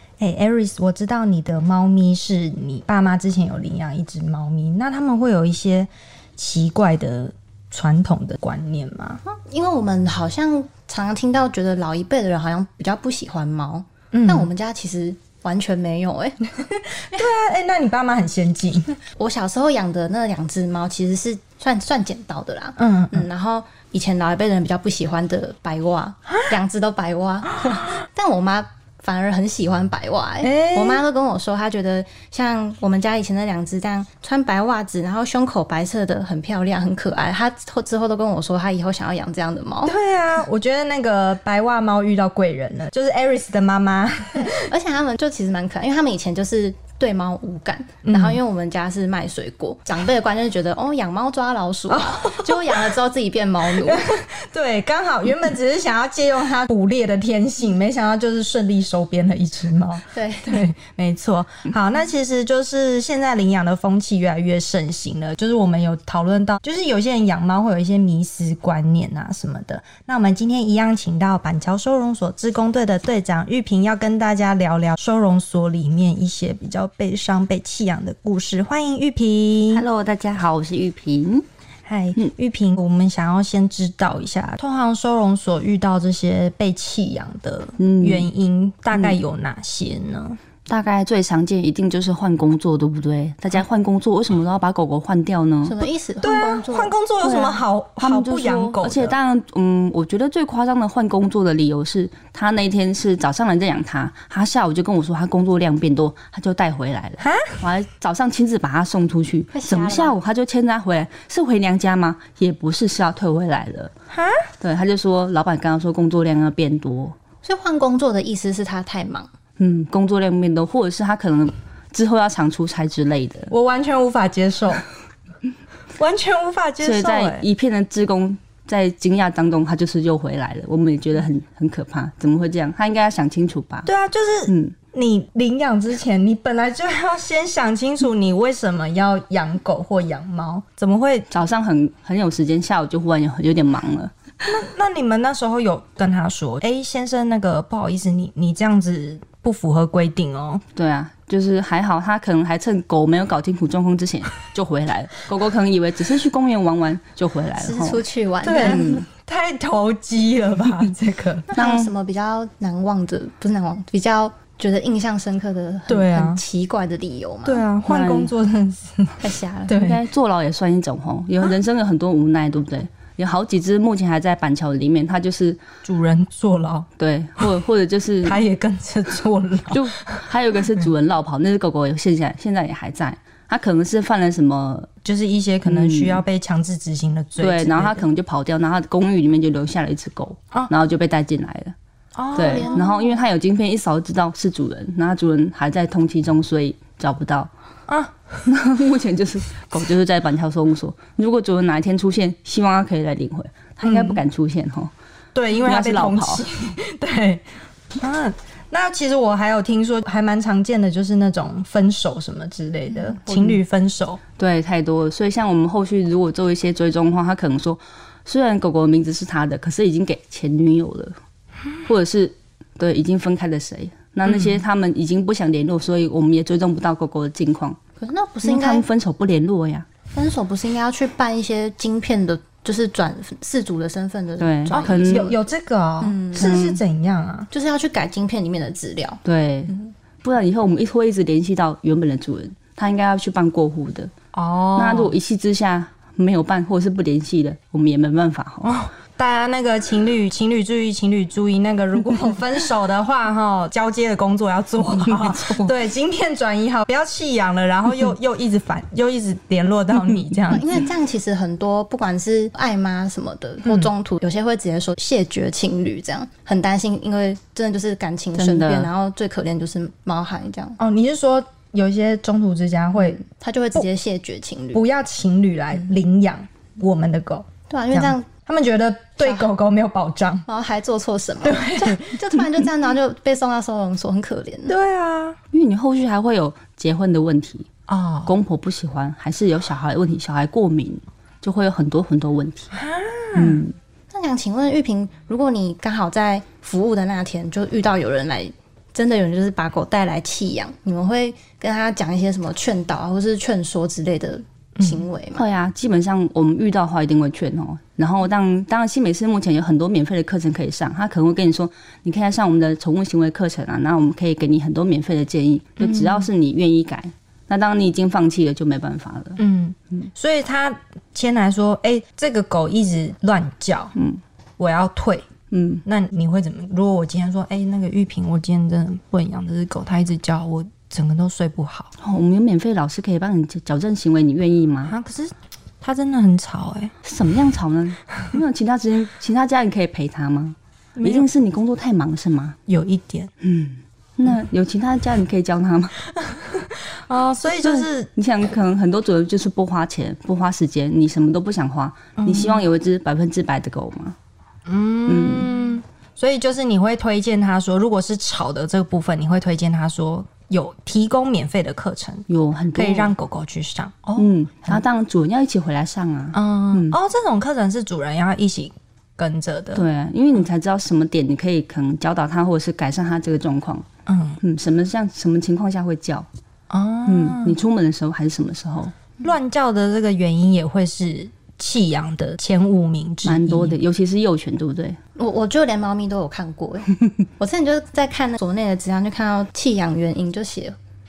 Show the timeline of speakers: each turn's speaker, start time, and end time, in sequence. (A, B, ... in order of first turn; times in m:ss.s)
0:00.2-0:09.2 A
0:09.2-0:16.4 B
0:14.1-0:14.5 A
0:16.7-0:19.0 A
0:19.2-0:40.0 B
0:22.8-0:23.3 A
0:30.4-0:31.0 A
0:39.8-0:44.7 A
0:44.3-0:54.1 B
0:48.0-0:48.4 A
0:51.9-0:53.0 A
0:53.8-1:19.8 A
1:00.1-1:00.6 B
1:19.7-1:21.4 C
1:21.9-1:30.4 A
1:27.8-1:28.3 C
1:28.9-1:29.2 C
1:30.7-1:35.8 C
1:35.6-1:36.9 B
1:36.2-1:39.2 A
1:37.2-1:53.9 C
1:47.2-1:47.6 A
1:49.5-1:50.2 B
1:54.1-1:54.5 A
1:54.6-1:57.2 C
1:57.4-1:59.3 B
1:59.6-2:03.5 C
2:03.5-2:04.8 A
2:06.0-2:07.4 A
2:06.8-2:13.9 C
2:13.8-2:21.3 A
2:14.5-2:14.8 C
2:21.3-2:24.1 C
2:24.5-2:30.6 A
2:30.8-2:39.1 C
2:37.6-2:39.1 B
2:38.4-2:41.5 A
2:41.5-2:47.7 B
2:41.6-2:41.9 C
2:45.9-2:46.4 A
2:47.5-2:50.0 A
2:47.8-2:48.3 C
2:49.2-2:49.8 B
2:49.7-2:55.6 C
2:55.8-2:56.9 A
2:57.0-2:58.4 C
2:58.2-3:00.3 A
2:59.7-3:04.9 C
3:05.0-3:08.1 A
3:05.6-3:06.2 C
3:07.4-3:11.7 C
3:12.2-3:13.1 A
3:12.3-3:17.5 C
3:12.4-3:13.2 B
3:17.9-3:18.2 A
3:18.4-3:24.9 C
3:23.8-3:24.2 A
3:25.3-3:27.4 A
3:25.6-3:26.4 C
3:28.0-3:34.2 A
3:33.3-3:33.6 C
3:34.4-3:41.1 C
3:41.8-3:47.8 C
3:44.3-3:44.6 A
3:48.0-3:48.9 B
3:48.4-3:49.9 C
3:50.1-3:55.4 B
3:54.4-3:55.4 C
3:54.7-3:57.5 A
3:56.0-3:56.6 B
3:56.4-3:56.8 C
3:57.5-3:59.9 B
3:59.2-4:04.1 C
4:04.3-4:05.2 A
4:04.8-4:08.8 C
4:08.6-4:20.8 A
4:15.0-4:15.7 C
4:20.5-4:30.8 B
4:23.6-4:23.9 A
4:28.4-4:28.9 C
4:30.8-4:33.2 A
4:33.0-4:34.8 B
4:34.7-4:40.5 A
4:37.7-4:38.3 B
4:39.2-4:39.5 B
4:40.5-4:44.8 B
4:41.4-4:42.2 A
4:44.7-4:45.4 A
4:45.5-4:47.7 C
4:47.9-4:48.4 A
4:48.2-4:52.7 C
4:52.7-4:53.6 A
4:53.4-4:53.8 C
4:54.1-5:05.5 B
5:04.8-5:05.0 A
5:05.3-5:19.4 C
5:15.8-5:16.3 A
5:19.4-5:23.9 A
5:24.0-5:24.2 C
5:24.6-5:25.3 A
5:25.5-5:25.8 C
5:25.9-5:31.9 A
5:32.0-5:35.0 C
5:34.9-5:36.9 A
5:37.0-5:42.6 C
5:41.0-5:41.3 A
5:42.7-5:43.3 A
5:43.4-5:46.0 C
5:46.2-5:48.1 A
5:47.4-5:54.2 C
5:52.2-5:52.7 A
5:54.7-6:04.8 A
5:55.1-5:55.5 C
6:02.3-6:03.1 C
6:04.2-6:07.0 C
6:06.3-6:09.9 A
6:09.7-6:13.8 C
6:14.1-6:14.4 A
6:14.4-6:16.3 C
6:16.7-6:17.6 A
6:17.1-6:19.1 C
6:19.2-6:23.8 A
6:23.2-6:25.0 C
6:25.2-6:30.8 B